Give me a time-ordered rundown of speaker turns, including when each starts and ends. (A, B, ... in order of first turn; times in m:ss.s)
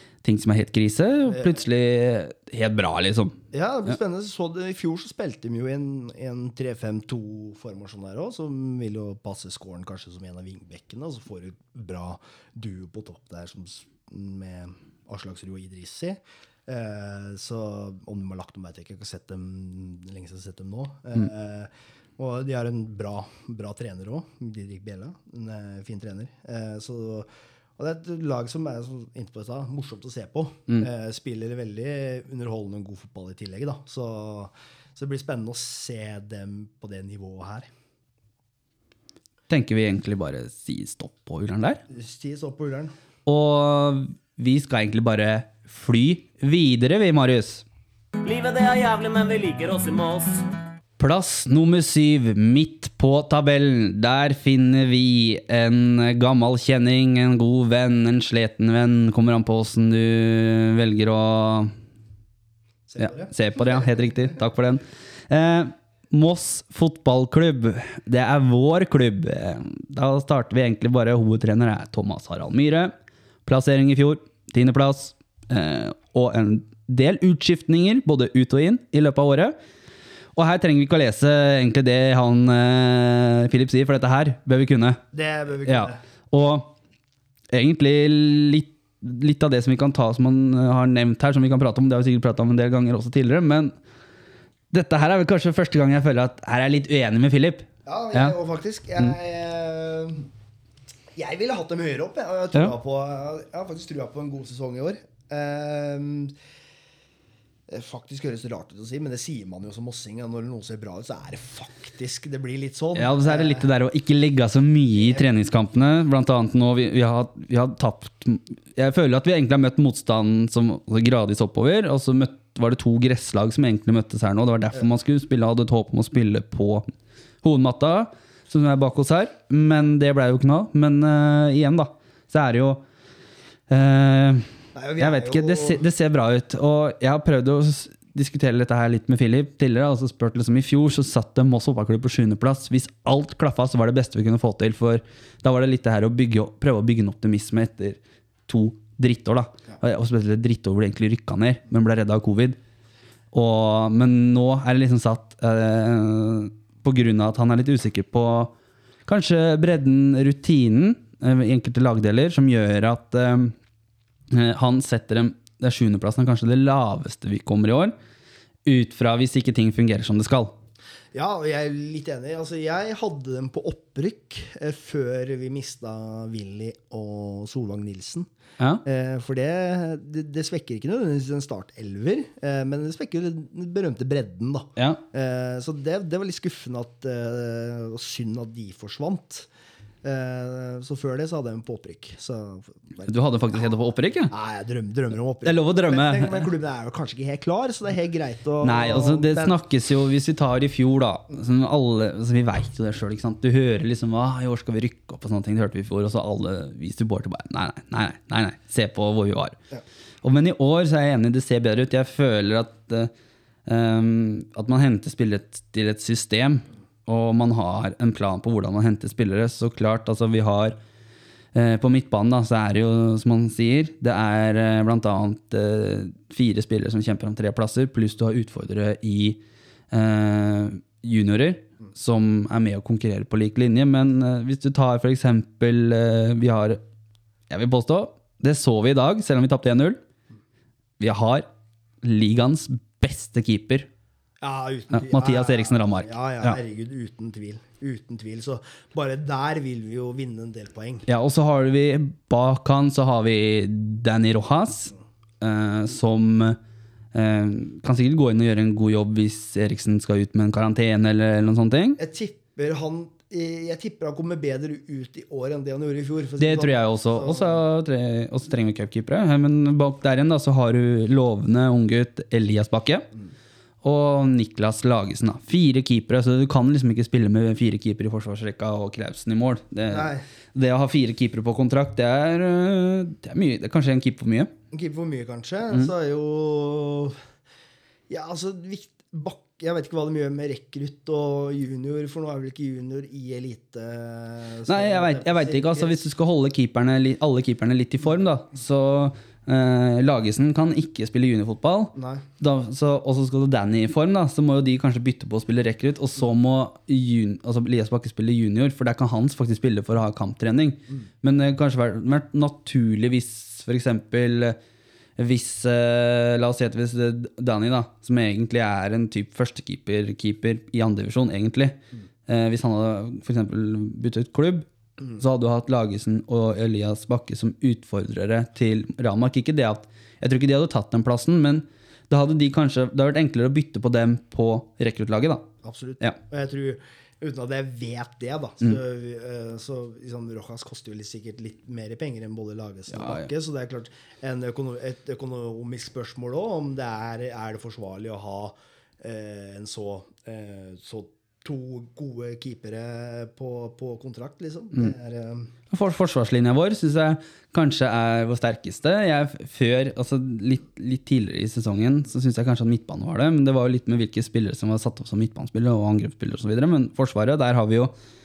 0:00.2-0:03.4 A
0:03.5-0:37.7 B
0:39.5-0:41.8 A
0:41.9-0:42.9 B
0:43.3-0:47.6 A
0:48.2-0:50.4 C
0:51.0-1:01.8 A
1:02.9-1:03.3 B
1:03.0-1:12.9 A
1:13.5-1:19.6 A
1:20.4-1:25.0 A
1:25.1-1:26.0 B
1:25.6-1:26.8 A
1:27.5-1:33.8 A
1:34.7-1:38.4 A
1:37.9-1:40.3 B
1:41.2-1:46.3 B
1:47.7-1:53.7 B
1:52.9-2:06.9 A
1:55.0-1:55.3 B
2:07.4-2:12.8 A
2:13.7-2:32.6 A
2:14.8-2:15.8 B
2:33.3-2:38.5 A
2:39.1-2:43.6 A
2:44.3-2:48.0 A
2:48.6-2:50.5 A
2:51.1-2:58.3 B
2:58.8-3:09.5 B
3:10.0-3:13.8 B
3:13.1-3:14.3 A
3:14.3-3:19.6 B
3:15.4-3:16.5 A
3:18.6-3:29.6 A
3:30.2-3:33.1 A
3:33.7-3:40.8 A
3:41.5-3:49.4 A
3:49.9-3:56.8 A
3:57.5-4:00.0 A
4:01.0-4:01.5 A
4:02.0-4:03.9 A
4:04.4-4:11.0 B
4:04.9-4:06.6 A
4:11.1-4:16.6 A
4:17.1-4:22.0 A
4:22.0-4:27.6 B
4:26.4-4:33.1 A
4:33.8-4:44.5 A
4:39.9-4:40.2 B
4:44.7-4:47.2 B
4:48.1-4:56.0 B
4:54.7-5:14.6 A
5:01.9-5:02.2 B
5:15.2-5:35.5 A
5:35.6-5:55.5 B
5:42.9-5:43.3 A
5:55.7-6:07.9 A